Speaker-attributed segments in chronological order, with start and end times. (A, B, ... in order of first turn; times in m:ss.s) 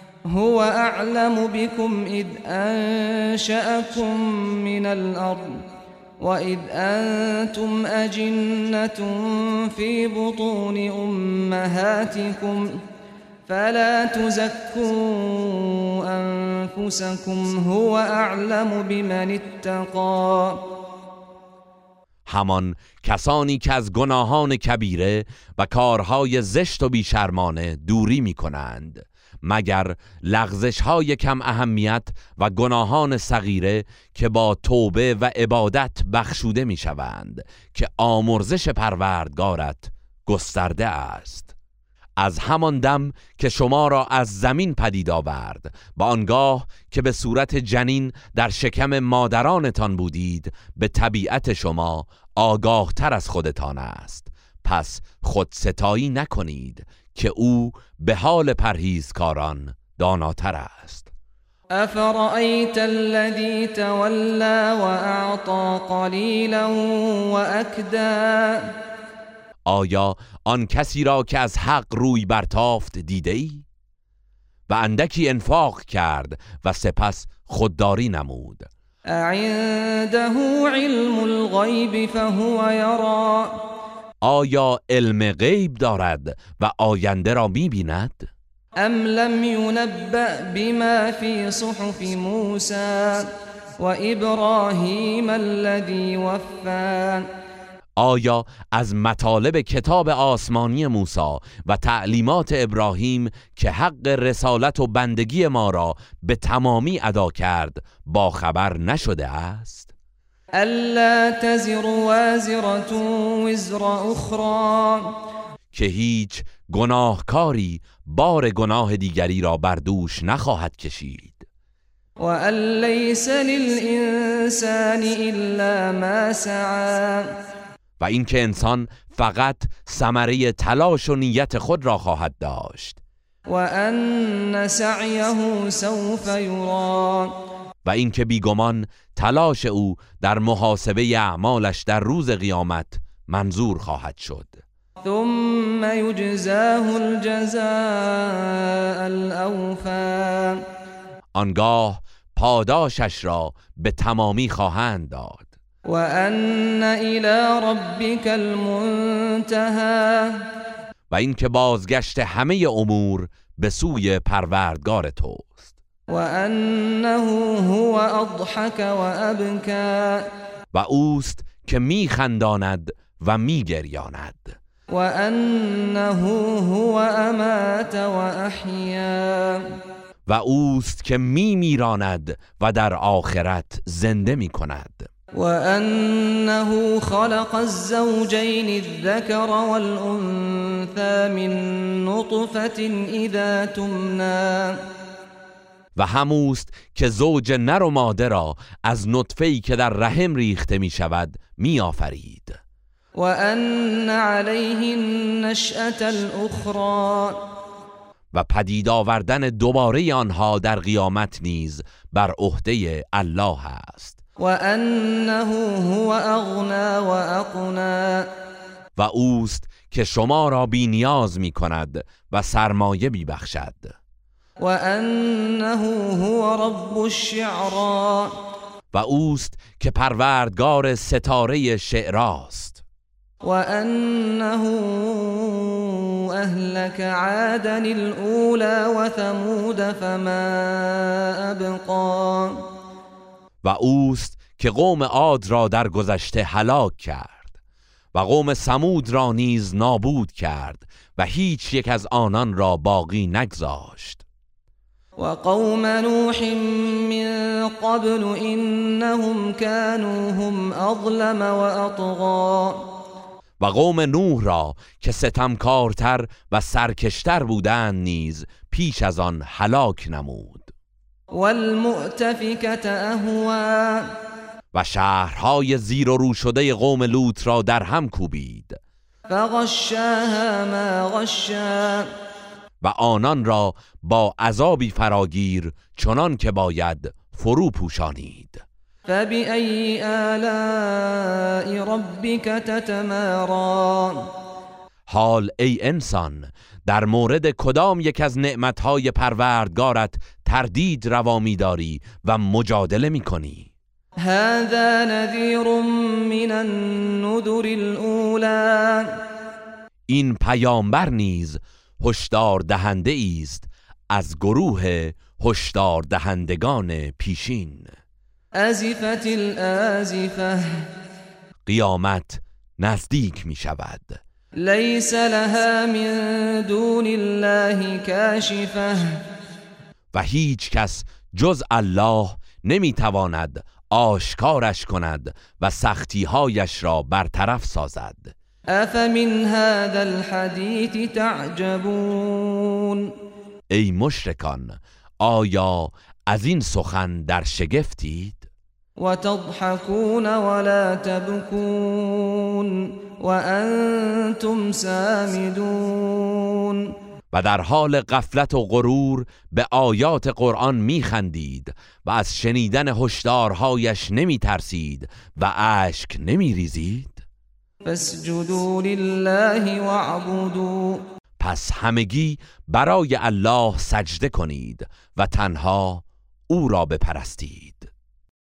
0:00.3-0:05.6 A
0:06.2-0:12.7 A
0:13.5-0:20.6 A
0:22.2-0:41.5 B
0:42.2-1:01.1 B
1:01.8-1:08.6 A
1:09.6-1:13.6 B
1:14.7-1:18.7 B
1:19.1-1:23.5 A
1:24.2-1:28.3 B
1:28.8-1:37.2 A
1:38.0-1:49.9 B
1:50.6-1:55.1 A
1:55.7-2:01.4 B
2:02.2-2:07.3 A
2:08.0-2:13.0 B
2:13.5-2:17.3 A
2:17.8-2:24.6 B
2:25.0-2:30.6 A
2:31.3-2:35.5 B
2:35.8-2:40.4 A
2:41.1-2:45.7 B
2:46.1-2:50.2 A
2:50.7-2:54.6 B
2:54.9-2:59.7 A
3:00.2-3:05.1 B
3:05.4-3:14.8 A
3:15.9-3:22.6 B
3:23.2-3:27.4 A
3:28.3-3:34.2 B
3:34.4-3:38.3 A
3:39.0-3:43.9 B
3:44.6-3:48.3 A
3:48.9-3:52.8 B
3:53.4-4:02.6 A
4:03.6-4:07.5 B
4:08.1-4:14.2 B
4:15.2-4:22.8 A
4:23.6-4:30.7 B
4:31.3-4:34.1 A
4:34.7-4:38.8 B
4:39.3-4:42.1 A
4:42.8-4:48.6 B
4:49.1-4:54.3 A
4:55.1-5:03.7 B
5:04.2-5:09.1 A
5:10.1-5:17.9 B
5:18.6-5:20.8 A
5:21.6-5:24.2 B
5:24.6-5:29.2 A
5:30.1-5:38.3 B
5:38.7-5:43.1 A
5:43.7-5:48.4 B
5:49.0-5:56.9 A
5:57.3-6:07.2 B
6:07.8-6:11.0 A
6:11.4-6:17.9 B